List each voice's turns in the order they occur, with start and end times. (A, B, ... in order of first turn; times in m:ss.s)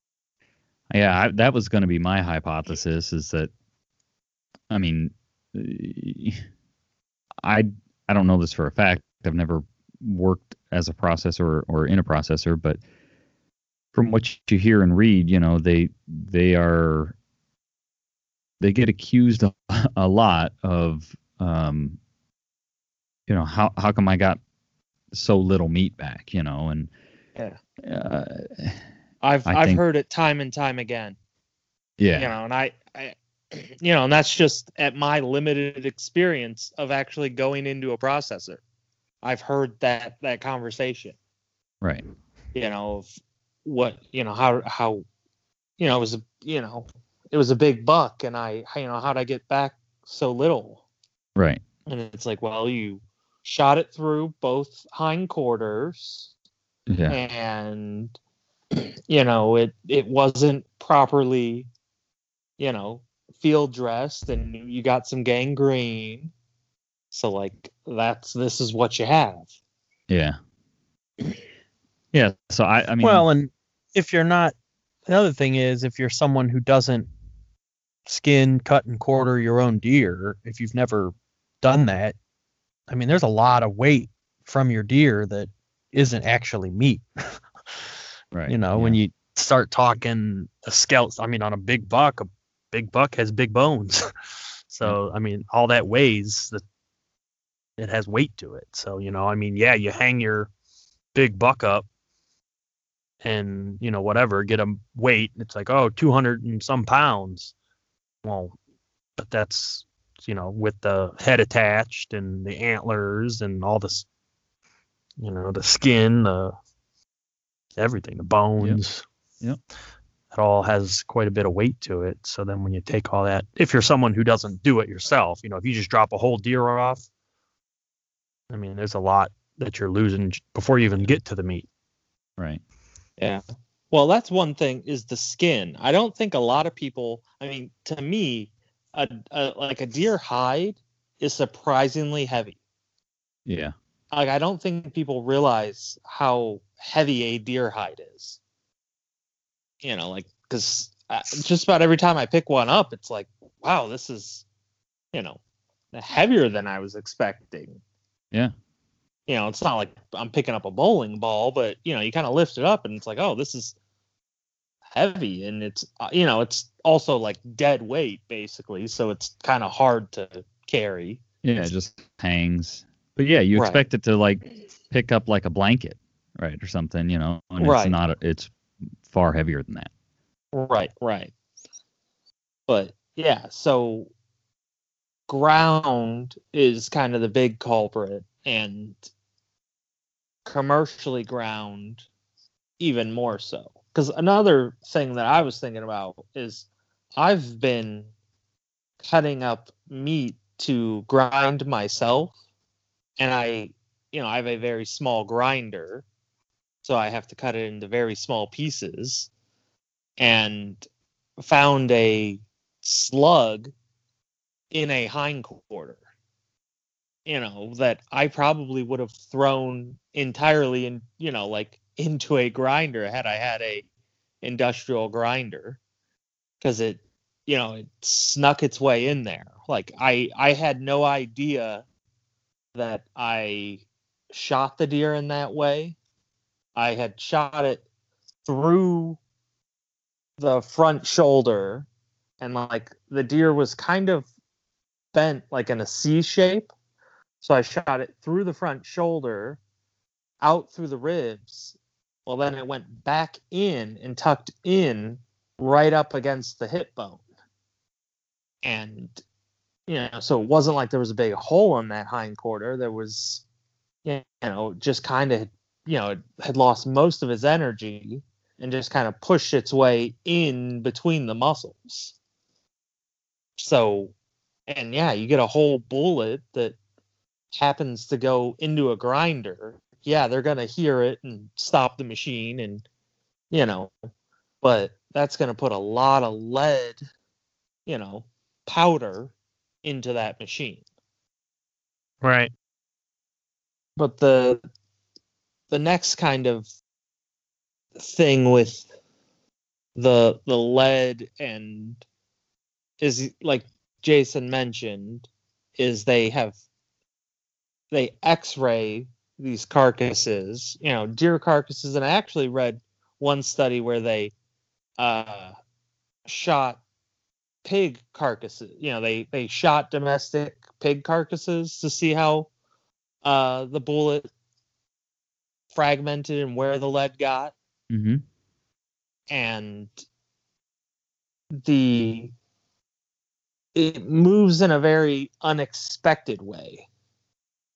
0:00.9-0:03.5 A
0:04.7-0:06.4 A
0:07.4-0:12.8 A
0:13.9-0:17.1 A
0:18.6-0:22.0 A
0:23.3-0:24.4 A
0:25.1-0:26.9 A
0:27.8-0:28.8 A
0:29.2-0:31.2 B
0:29.4-0:29.8 A
0:32.0-0:32.3 A
0:32.1-0:38.6 B
0:39.2-0:41.2 B
0:42.5-0:43.1 B
0:43.6-0:45.0 B
0:45.8-0:50.8 B
0:51.4-0:51.6 A
0:51.9-0:56.3 B
0:56.9-0:57.2 A
0:57.1-0:58.2 B
0:58.7-1:01.7 B
1:02.6-1:06.3 B
1:07.1-1:09.5 B
1:10.1-1:10.4 A
1:12.1-1:13.2 A
1:13.0-1:14.5 C
1:15.1-1:17.1 C
1:18.1-1:22.2 C
1:22.9-1:27.0 C
1:28.3-1:29.0 A
1:28.5-1:34.1 C
1:34.7-1:36.6 C
1:37.8-1:40.5 C
1:41.1-1:41.8 C
1:43.2-1:47.5 C
1:48.2-1:48.6 C
1:49.2-1:54.0 C
1:55.2-1:56.5 C
1:57.8-1:59.0 C
2:00.3-2:07.0 C
2:08.5-2:11.7 C
2:13.2-2:22.6 B
2:23.4-2:23.7 A
2:24.1-2:28.4 B
2:29.8-2:34.4 B
2:35.1-2:35.4 B
2:35.9-2:37.8 B
2:39.3-2:43.8 B
2:44.9-2:51.2 B
2:51.4-2:58.5 A
2:53.5-2:53.8 B
2:57.6-2:58.0 B
2:59.0-2:59.9 A
3:00.5-3:01.3 B
3:02.7-3:04.1 B
3:05.3-3:09.0 B
3:10.4-3:12.0 B
3:12.8-3:18.1 B
3:19.0-3:22.3 B
3:23.2-3:26.0 B
3:26.8-3:29.3 B
3:30.2-3:30.8 B
3:31.4-3:33.7 B
3:34.7-3:36.0 B
3:37.2-3:43.8 B
3:44.4-3:45.8 B
3:46.6-3:51.8 B
3:52.7-3:56.0 B
3:56.7-3:57.8 B
3:58.4-3:59.2 B
4:00.4-4:01.9 B
4:02.4-4:04.2 B
4:05.1-4:06.7 B
4:07.4-4:09.6 B
4:10.4-4:17.2 B
4:18.6-4:19.2 B
4:19.9-4:23.4 B
4:24.0-4:32.1 B
4:33.6-4:34.1 B
4:34.7-4:36.8 B
4:37.5-4:42.8 B
4:43.5-4:43.9 B
4:44.6-4:47.0 B
4:47.8-4:49.3 B
4:49.8-4:50.8 B
4:52.2-4:52.5 C
4:54.0-4:54.6 B
4:55.7-4:56.7 B
4:58.0-4:58.9 B
5:00.0-5:02.0 B
5:03.0-5:06.6 B
5:07.9-5:14.3 B
5:15.0-5:15.5 B
5:16.2-5:16.8 B
5:17.6-5:22.5 B
5:23.2-5:24.3 B
5:25.7-5:27.5 B
5:27.9-5:28.2 A
5:29.3-5:30.0 B
5:31.5-5:32.3 B
5:33.7-5:36.9 B